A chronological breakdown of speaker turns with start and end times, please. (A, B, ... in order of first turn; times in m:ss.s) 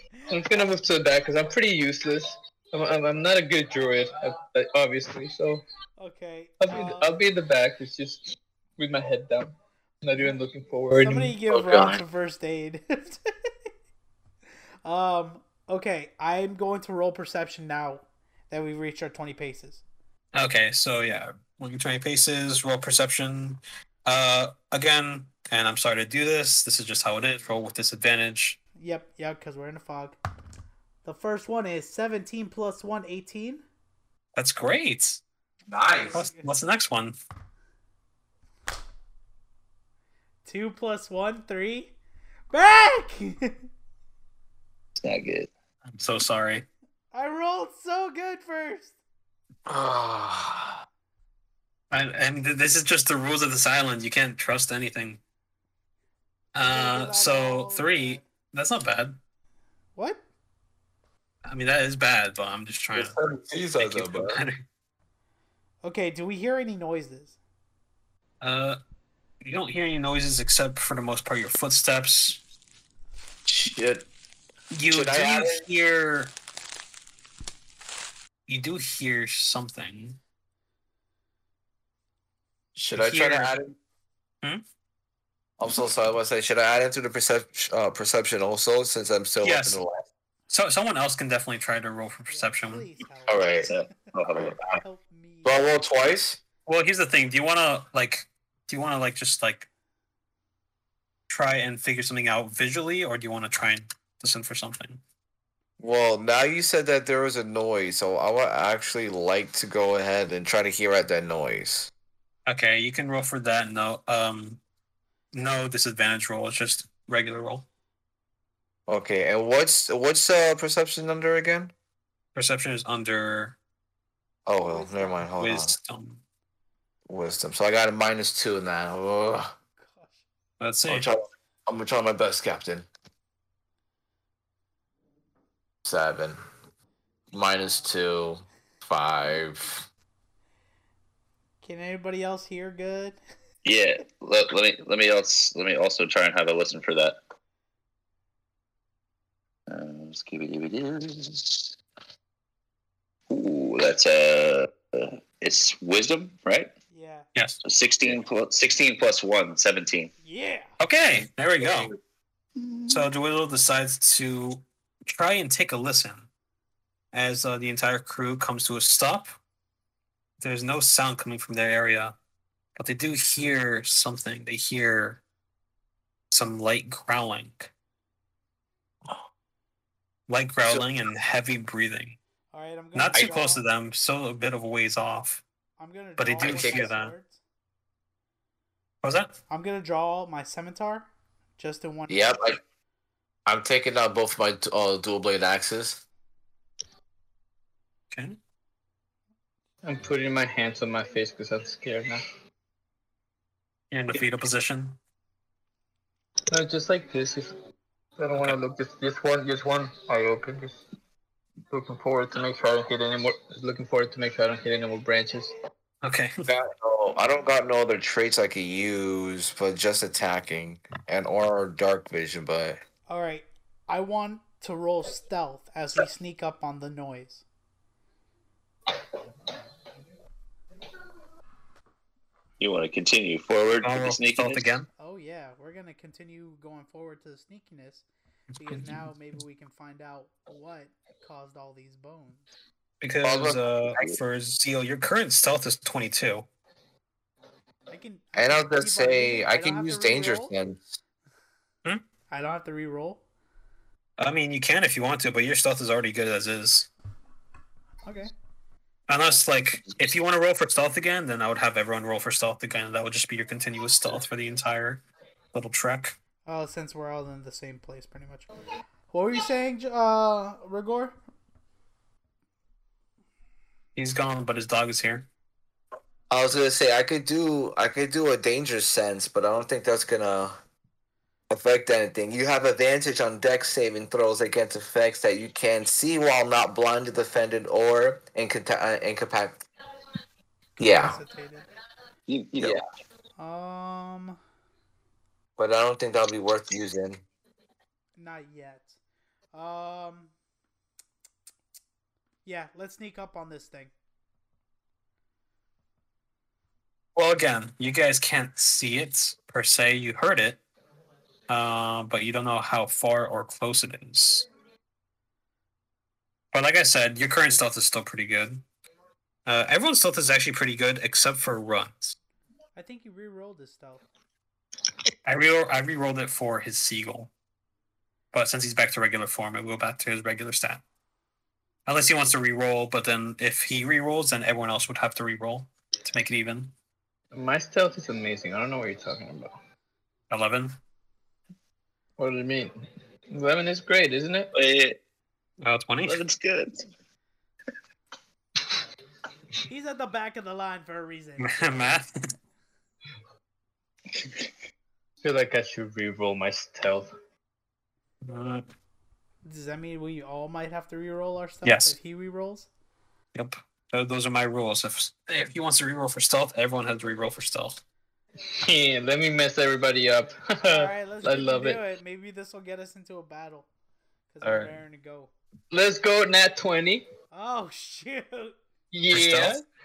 0:00.3-0:05.6 A
0:06.0-0:07.2 B
0:06.6-0:11.4 A
0:10.9-0:13.3 B
0:11.5-0:12.0 C
0:14.8-0:19.8 B
0:20.3-0:28.6 D
0:28.8-0:30.2 B
0:31.0-0:33.6 B
0:34.3-0:35.2 D
0:35.7-0:36.2 C
0:36.0-0:36.5 B
0:36.1-0:37.2 D
0:40.4-0:41.9 B
0:42.5-0:43.6 B
0:45.0-0:45.5 E
0:45.9-0:46.6 D
0:47.1-0:49.0 B
0:49.7-0:50.8 C
0:51.9-0:55.2 D
0:56.5-0:59.2 D
0:56.6-0:58.2 B
1:00.0-1:00.2 B
1:01.5-1:03.2 D
1:02.9-1:04.4 C
1:03.8-1:04.6 D
1:05.8-1:07.4 B
1:08.4-1:08.8 D
1:09.4-1:12.4 D
1:13.4-1:14.0 C
1:14.7-1:16.3 D
1:14.9-1:15.6 C
1:18.5-1:20.2 D
1:22.7-1:23.7 C
1:22.9-1:23.6 D
1:25.6-1:30.0 C
1:29.4-1:29.8 D
1:30.5-1:32.9 D
1:32.3-1:33.9 B
1:33.3-1:33.7 C
1:33.7-1:34.8 E
1:34.7-1:35.7 B
1:35.4-1:36.4 C
1:36.6-1:39.7 D
1:41.3-1:45.0 D
1:45.8-1:51.9 C
1:52.4-1:54.6 D
1:55.3-1:57.6 D
1:58.9-2:01.7 C
2:02.3-2:03.6 D
2:04.4-2:05.7 C
2:04.7-2:05.3 B
2:05.4-2:06.2 D
2:07.1-2:09.5 C
2:09.8-2:10.2 B
2:10.6-2:11.1 D
2:10.9-2:12.8 C
2:15.8-2:16.4 C
2:17.3-2:19.8 C
2:17.6-2:17.9 B
2:21.6-2:23.2 B
2:23.6-2:27.2 E
2:29.7-2:31.7 E
2:33.3-2:36.7 E
2:36.9-2:37.3 B
2:37.3-2:37.6 D
2:37.6-2:40.1 E
2:40.2-2:40.7 B
2:40.8-2:41.9 D
2:42.6-2:43.0 E
2:42.9-2:46.3 D
2:47.1-2:49.3 D
2:50.4-2:52.1 D
2:52.8-2:55.2 D
2:56.3-2:57.7 D
3:00.3-3:02.2 D
3:02.5-3:03.6 B
3:02.9-3:05.4 D
3:05.8-3:07.4 B
3:06.2-3:07.1 D
3:06.4-3:06.9 C
3:09.0-3:09.3 D
3:09.5-3:11.1 B
3:11.6-3:12.5 B
3:12.1-3:12.6 C
3:13.4-3:16.0 C
3:18.1-3:18.4 D
3:19.8-3:22.2 A
3:23.9-3:25.0 D
3:26.5-3:27.5 A
3:28.2-3:30.8 A
3:31.7-3:35.5 A
3:36.0-3:36.5 D
3:36.5-3:42.8 C
3:43.1-3:47.4 B
3:52.6-3:54.7 E
3:53.8-3:54.9 D
3:55.0-3:58.0 B
3:58.6-4:02.4 B
3:58.6-3:59.0 D
4:03.0-4:06.4 D
4:03.2-4:04.2 C
4:07.9-4:10.5 B
4:08.4-4:11.0 C
4:12.3-4:13.2 B
4:14.2-4:16.9 D
4:18.0-4:18.3 B
4:19.1-4:25.0 D
4:25.5-4:26.2 D
4:26.4-4:28.5 B
4:29.1-4:31.1 B
4:34.0-4:35.3 D
4:36.3-4:40.5 C
4:41.5-4:49.6 C
4:50.8-4:51.2 C
4:50.8-4:51.7 B
4:52.3-4:52.8 E
4:52.6-4:52.8 C
4:53.4-4:54.4 B
4:55.6-4:57.2 C
4:58.2-4:59.0 B
4:59.5-5:00.3 B
5:02.4-5:03.9 B
5:07.2-5:10.6 D
5:11.5-5:14.5 D
5:16.5-5:18.6 D
5:19.4-5:22.2 D
5:22.8-5:24.0 B
5:25.2-5:27.3 D
5:28.3-5:30.8 D
5:31.8-5:36.7 D
5:37.3-5:39.6 A
5:40.3-5:40.8 D
5:42.2-5:42.7 A
5:43.3-5:44.5 A
5:44.5-5:45.0 E
5:45.6-5:46.2 D
5:46.0-5:46.8 E
5:49.7-5:52.0 B
5:51.4-5:52.1 D
5:55.2-5:57.1 A
5:58.2-5:58.6 D
5:59.4-6:02.7 B
6:01.6-6:01.9 D
6:03.3-6:07.8 D
6:08.4-6:11.8 A
6:10.6-6:13.7 B
6:14.3-6:15.3 B
6:14.4-6:14.8 D
6:15.7-6:17.0 A
6:17.3-6:18.6 B
6:18.9-6:19.6 A
6:19.1-6:19.6 D